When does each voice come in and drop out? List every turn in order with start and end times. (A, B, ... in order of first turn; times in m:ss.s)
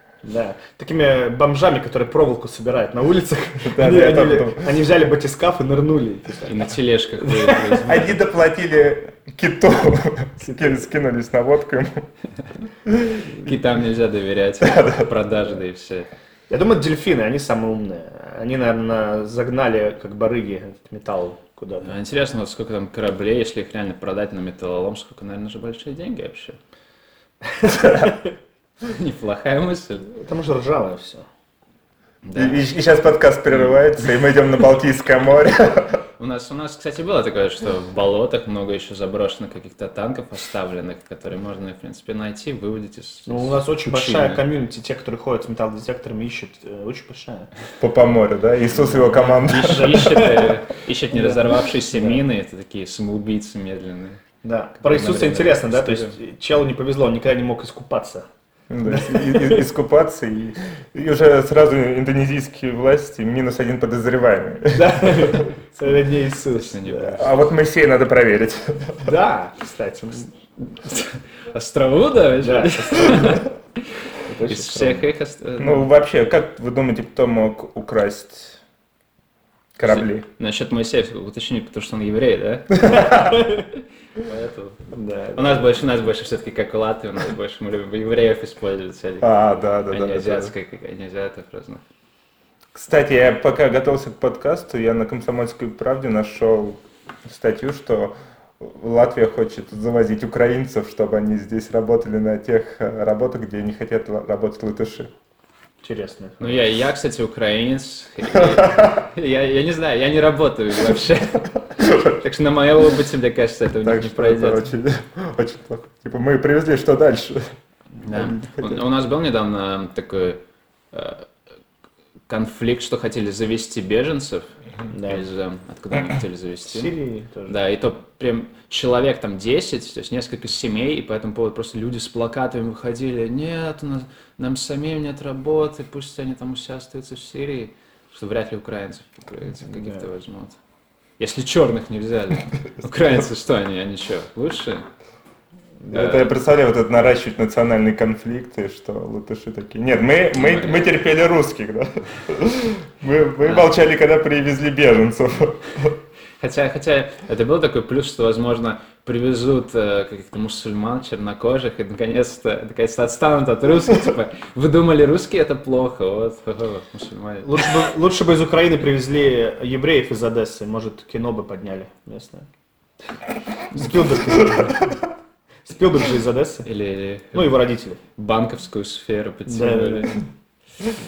0:00.2-0:06.7 A
0:03.6-0:04.7 B
0:06.4-0:08.2 C
0:07.2-0:08.0 A
0:07.8-0:12.1 B
0:10.4-0:10.8 A
0:13.3-0:16.1 C
0:14.6-0:15.1 B
0:16.5-0:21.9 A
0:21.8-0:26.6 C
0:27.7-0:28.1 B
0:27.8-0:28.1 A
0:28.8-0:30.1 C
0:30.1-0:31.2 A
0:32.2-0:32.7 C
0:32.3-0:36.0 B
0:33.5-0:33.9 C
0:36.2-0:44.4 C
0:43.3-0:47.5 A
0:47.8-0:50.3 B
0:49.1-0:54.2 C
0:49.6-0:50.6 A
0:51.1-0:52.2 A
0:54.4-0:58.2 A
0:54.8-0:56.1 C
0:58.7-1:05.4 B
0:58.8-0:59.6 A
1:04.7-1:07.3 A
1:06.5-1:07.4 C
1:07.2-1:09.1 B
1:09.0-1:10.3 A
1:10.7-1:13.5 C
1:12.4-1:13.4 A
1:14.3-1:15.1 A
1:14.4-1:15.9 C
1:15.6-1:18.6 B
1:19.8-1:20.2 B
1:19.8-1:23.6 C
1:22.8-1:23.3 B
1:24.2-1:29.3 C
1:24.9-1:25.6 A
1:29.2-1:30.5 B
1:29.9-1:31.8 C
1:32.7-1:45.1 B
1:45.8-1:46.5 A
1:46.4-1:54.7 C
1:48.3-1:49.0 B
1:51.8-1:52.2 B
1:53.8-1:57.5 B
1:58.0-2:00.4 C
2:00.9-2:01.3 C
2:02.3-2:06.9 C
2:04.9-2:05.2 A
2:06.7-2:07.6 A
2:07.5-2:20.6 C
2:19.7-2:20.0 A
2:21.2-2:24.9 C
2:25.9-2:26.3 C
2:25.9-2:35.9 B
2:30.3-2:30.9 C
2:33.4-2:33.7 C
2:36.4-2:47.8 C
2:47.4-2:52.5 A
2:53.7-2:54.9 A
2:54.4-2:54.7 B
2:55.6-2:56.7 A
2:56.6-2:57.6 C
2:57.3-2:58.0 A
2:58.2-3:00.2 C
2:59.5-3:00.2 A